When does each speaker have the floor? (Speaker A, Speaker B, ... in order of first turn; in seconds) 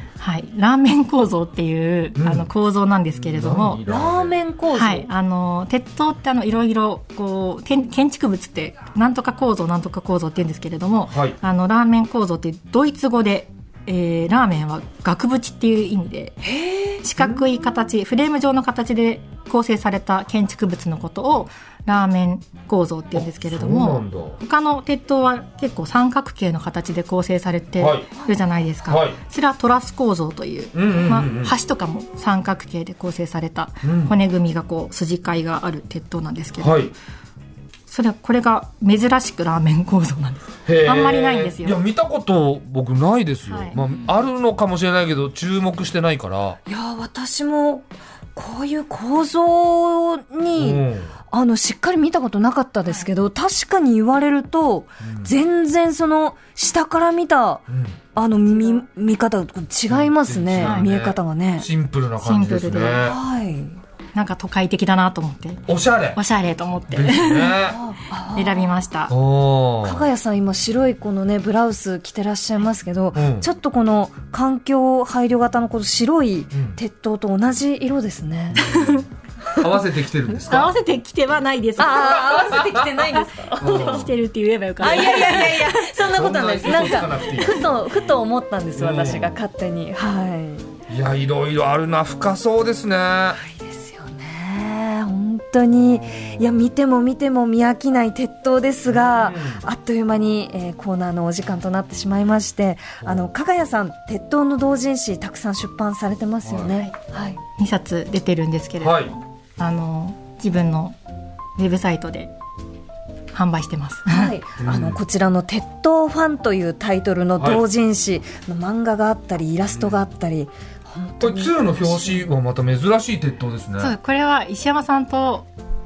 Speaker A: 0.2-3.8, 4.7-16.5, 17.0-36.8, 37.9-41.8, 43.5-43.8, 60.6-60.9, 62.2-63.1, 64.1-65.6, 66.1-67.6, 68.3-69.1, 78.5-79.0, 80.4-85.9, 107.6-111.0, 111.6-112.3, 113.3-114.3, 123.8-125.5
Speaker B: 2.1-2.5, 3.1-4.4, 11.1-11.4, 17.2-17.5, 23.1-24.4, 27.8-28.1, 28.9-29.2, 30.7-31.5, 33.8-34.1, 36.6-36.9, 40.6-46.6, 50.6-51.1, 55.0-55.3, 57.7-58.0, 59.9-63.2, 65.7-66.2, 66.9-67.8, 69.1-70.1, 73.1-73.5, 76.5-76.8, 78.6-80.7, 81.9-83.0, 83.6-84.1, 86.0-87.7, 88.8-89.3, 90.9-93.4, 98.9-99.6, 106.4-106.8, 108.8-109.1, 114.6-115.0, 121.2-123.9
Speaker C: 3.9-5.1, 16.4-17.0, 46.7-57.6, 58.1-61.7, 63.0-63.8, 67.6-68.7, 69.8-78.7, 81.8-84.1, 84.8-90.7, 93.3-107.4, 114.0-122.2